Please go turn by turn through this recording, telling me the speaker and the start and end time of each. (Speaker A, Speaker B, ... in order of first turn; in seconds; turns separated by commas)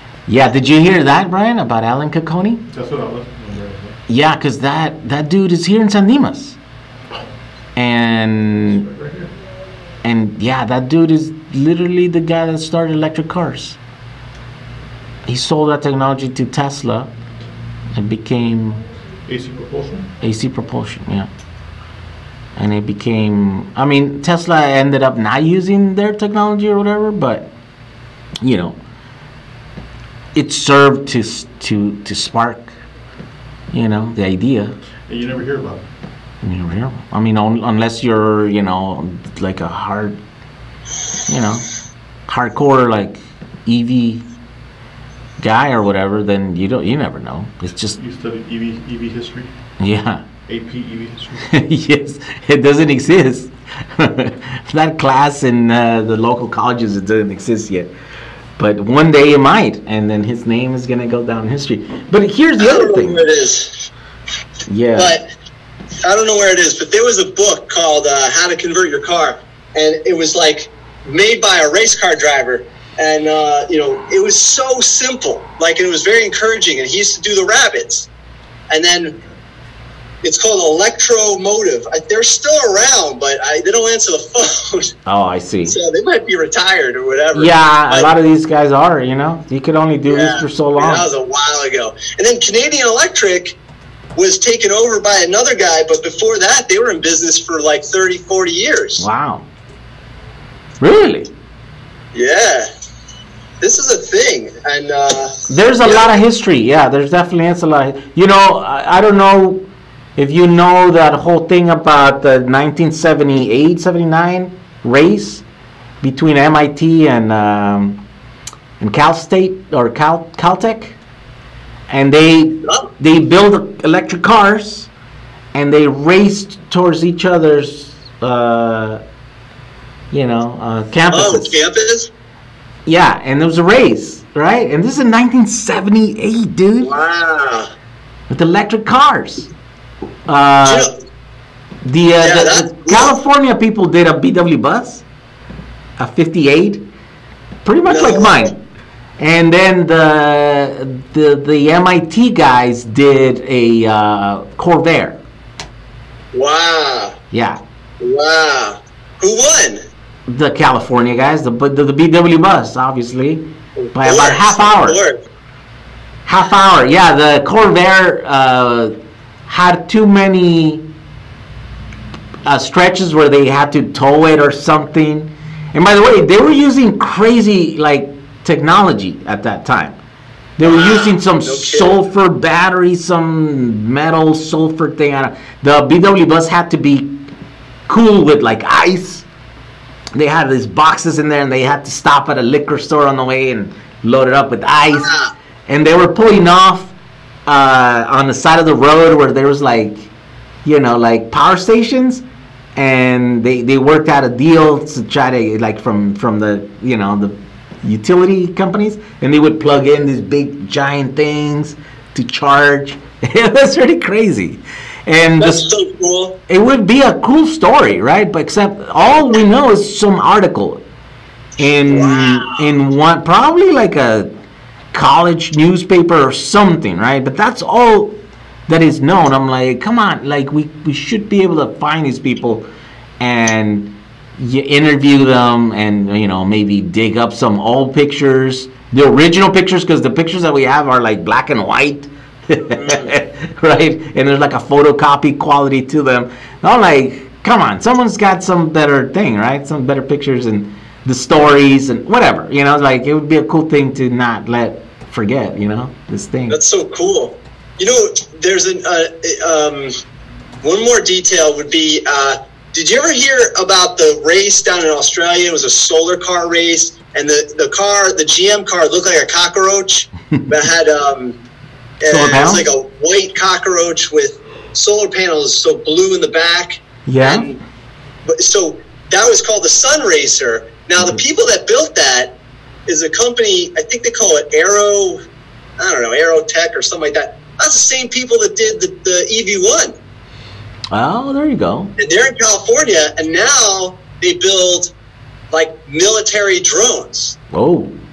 Speaker A: 0.3-2.6, Speaker B: 2.7-4.0, Speaker A: 4.1-6.6, Speaker A: 7.8-8.8, Speaker B: 8.7-9.3, Speaker A: 10.0-13.8, Speaker A: 15.3-17.1, Speaker A: 17.9-18.8, Speaker B: 19.3-20.1, Speaker A: 20.2-21.3, Speaker A: 22.6-27.5, Speaker A: 28.4-28.8, Speaker A: 30.3-32.7, Speaker A: 33.7-34.7, Speaker B: 35.1-35.9, Speaker A: 36.4-40.2, Speaker A: 41.3-41.6, Speaker A: 42.3-44.2, Speaker A: 45.4-48.0, Speaker B: 48.0-49.5, Speaker A: 49.8-50.2, Speaker B: 50.5-51.6, Speaker A: 51.5-57.9, Speaker A: 58.6-63.2, Speaker C: 62.6-63.7, Speaker A: 64.7-65.1, Speaker C: 64.9-65.3, Speaker C: 66.0-78.1, Speaker C: 78.7-79.2, Speaker C: 80.2-84.9, Speaker A: 85.0-85.8, Speaker C: 85.7-88.1, Speaker A: 87.3-91.0, Speaker C: 90.1-93.5, Speaker C: 94.2-99.0, Speaker A: 99.0-99.5, Speaker A: 100.8-101.3, Speaker C: 102.1-102.7, Speaker C: 103.6-106.1, Speaker A: 105.5-109.6, Speaker A: 110.2-115.4, Speaker A: 116.0-118.0, Speaker A: 118.8-121.0, Speaker A: 121.9-124.9, Speaker C: 122.6-122.9, Speaker A: 125.5-129.0, Speaker A: 130.1-131.6, Speaker C: 131.1-132.1, Speaker A: 132.8-136.9, Speaker C: 136.8-137.7, Speaker A: 138.3-139.5, Speaker A: 140.3-140.9, Speaker C: 140.6-140.9, Speaker A: 141.8-145.0, Speaker C: 142.2-143.1, Speaker A: 146.0-146.8, Speaker A: 147.6-148.5, Speaker C: 147.9-148.5, Speaker A: 149.2-155.2, Speaker C: 156.3-157.1, Speaker A: 157.3-157.6, Speaker C: 158.0-159.8, Speaker A: 160.3-165.0, Speaker C: 163.8-165.2, Speaker A: 166.2-168.9, Speaker A: 169.5-170.8, Speaker A: 172.4-180.0, Speaker A: 180.6-187.1, Speaker C: 180.6-181.9, Speaker A: 187.9-189.2, Speaker A: 190.1-195.1, Speaker C: 194.9-195.3, Speaker A: 195.7-196.9, Speaker A: 197.4-200.1, Speaker A: 200.6-202.2, Speaker A: 202.7-215.7, Speaker C: 215.4-216.4, Speaker A: 216.5-220.8, Speaker A: 221.6-224.3, Speaker C: 221.9-222.6, Speaker A: 224.9-228.1, Speaker A: 228.7-232.7, Speaker A: 233.2-256.6, Speaker C: 242.7-243.1, Speaker C: 256.5-259.9, Speaker C: 260.6-271.4, Speaker C: 272.0-277.6, Speaker A: 272.1-272.6, Speaker A: 277.1-277.5, Speaker C: 278.3-282.3, Speaker C: 282.9-285.2, Speaker C: 285.8-289.9, Speaker A: 290.9-291.9, Speaker C: 292.0-294.9, Speaker C: 295.5-297.4, Speaker A: 297.5-297.9